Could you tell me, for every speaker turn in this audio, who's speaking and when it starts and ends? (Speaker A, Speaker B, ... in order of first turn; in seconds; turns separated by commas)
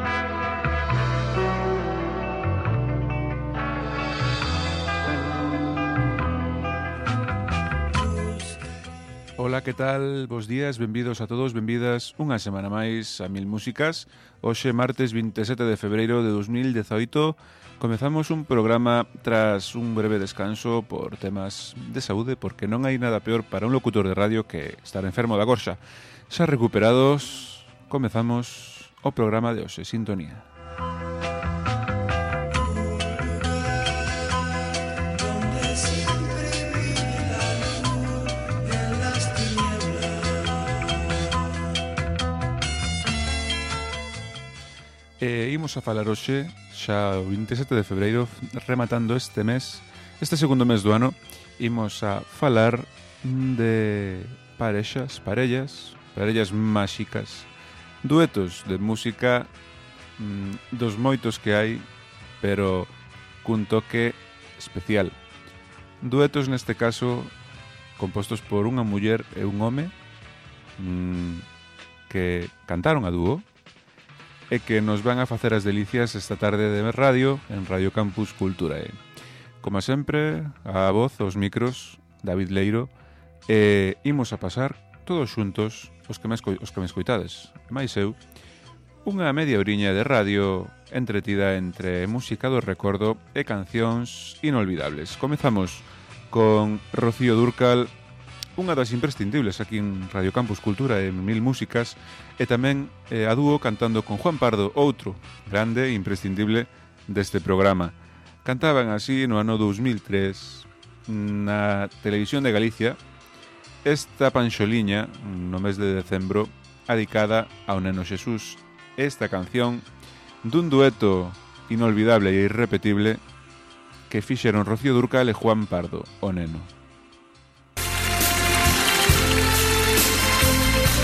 Speaker A: 9.4-30.5, Speaker A: 45.2-57.5, Speaker A: 58.0-59.5, Speaker A: 60.2-61.9, Speaker A: 62.4-62.9, Speaker A: 63.4-65.2, Speaker A: 66.0-67.3, Speaker A: 68.0-69.9, Speaker A: 70.8-71.5, Speaker A: 72.1-73.5, Speaker A: 74.5-79.0, Speaker A: 79.6-82.9, Speaker A: 83.5-88.2, Speaker A: 89.0-97.9, Speaker A: 98.6-113.0, Speaker A: 113.8-119.8, Speaker A: 120.4-123.2, Speaker A: 124.1-126.7